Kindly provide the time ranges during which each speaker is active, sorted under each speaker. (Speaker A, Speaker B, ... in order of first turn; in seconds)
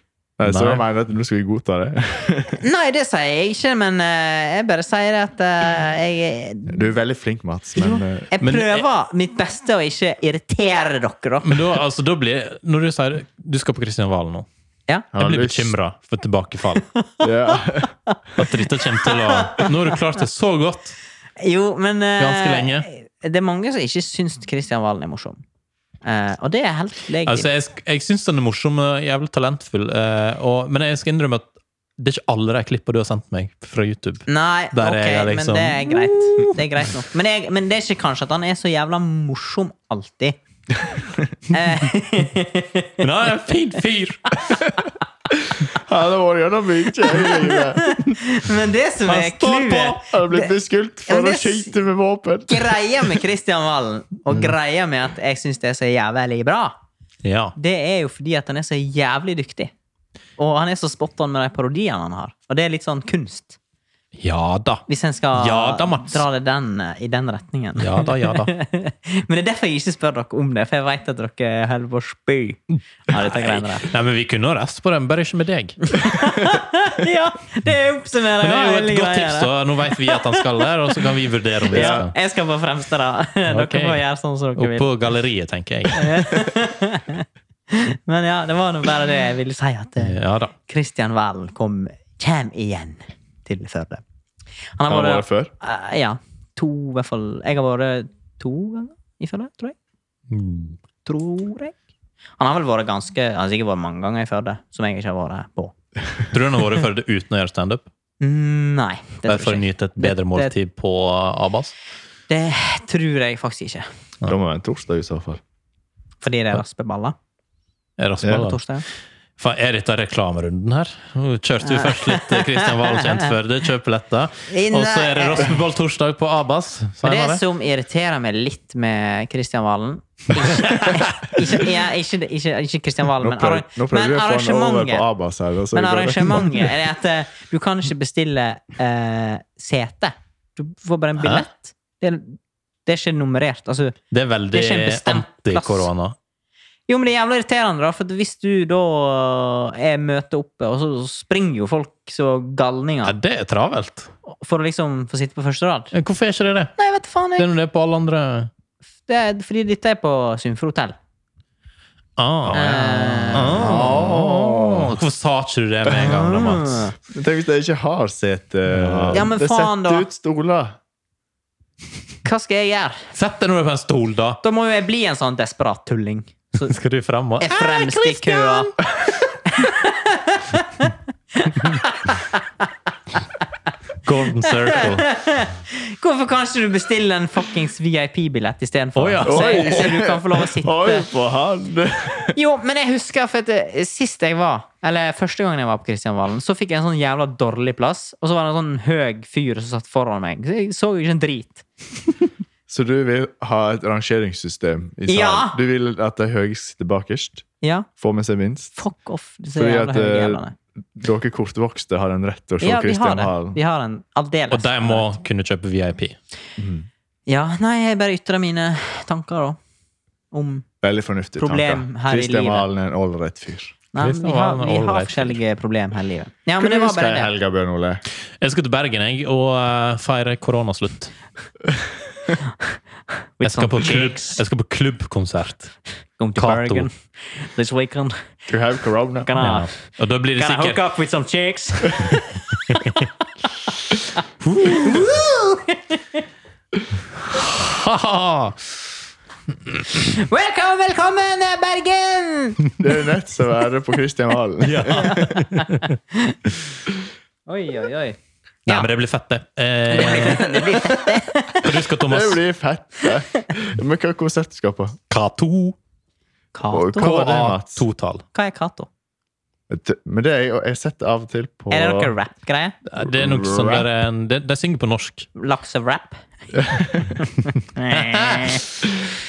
Speaker A: 0.4-2.6, 6.7-8.3, 15.1-15.7, 17.2-17.9, 45.5-48.1, 50.0-53.1, 81.7-82.0, 94.9-95.5, 114.3-115.4, 133.2-136.7, 163.4-164.9, 167.1-170.8, 189.2-192.4, 202.7-207.4, 208.0-208.7, 209.5-210.4, 210.9-213.6, 216.6-216.9, 220.8-223.8, 226.6-228.0, 238.5-239.3, 252.8-255.4, 262.0-264.9, 266.7-267.8, 269.7-272.1, 273.0-273.9, 276.5-277.2
Speaker B: 0.4-0.8, 8.4-8.9, 11.4-14.5, 15.1-16.8, 18.4-20.9, 22.2-22.9, 27.2-36.6, 43.0-44.3, 49.0-50.0, 57.2-57.5, 64.2-64.8, 65.3-66.2, 67.8-68.5, 73.1-76.2, 78.4-82.1, 83.5-84.0, 84.5-86.3, 90.0-90.5, 100.3-100.8, 106.3-107.8, 109.3-111.7, 118.0-118.6, 119.4-127.4, 130.4-131.3, 141.2-141.4, 144.1-146.2, 153.0-154.1, 155.9-156.7, 157.3-158.5, 162.2-166.9, 168.7-169.3, 173.1-174.4, 176.6-178.7, 184.0-185.1, 188.9-189.9, 214.5-216.2, 224.0-225.4, 228.4-231.1, 233.4-235.7, 236.3-236.9, 239.4-240.8, 242.6-243.1, 244.4-245.1, 247.2-248.8, 254.6-256.0, 258.6-260.9, 261.5-262.4, 265.1-265.8, 266.9-268.2, 272.9-275.3, 277.9-278.6
Speaker C: 2.5-6.9, 7.7-11.8, 16.9-19.9, 21.4-25.4, 26.0-27.5, 34.3-40.4, 41.5-42.9, 47.1-50.5, 51.1-51.7, 52.5-56.8, 57.6-59.7, 60.4-63.6, 64.9-73.9, 75.9-80.7, 81.7-84.9, 85.9-94.0, 94.8-99.7, 101.0-101.8, 102.4-105.7, 108.2-110.5, 112.3-113.9, 116.2-117.2, 118.3-118.8, 121.6-123.3, 124.5-125.5, 127.0-135.1, 135.7-144.0, 144.5-145.9, 146.9-153.1, 154.3-155.9, 156.8-157.5, 159.1-160.9, 162.5-163.8, 165.9-166.9, 169.1-170.1, 172.2-173.1, 174.4-176.7, 177.4-182.4, 184.4-191.1, 192.3-201.6, 205.1-205.6, 207.6-207.9, 208.8-210.5, 212.6-215.1, 217.3-219.6, 220.3-220.7, 221.4-222.7, 223.9-227.3, 233.4-234.4, 236.2-238.2, 239.2-242.9, 244.7-246.2, 249.9-252.7, 254.9-256.4, 257.5-258.9, 259.9-261.7, 266.5-267.1, 268.3-268.9, 271.7-272.8, 275.4-276.2, 277.7-278.7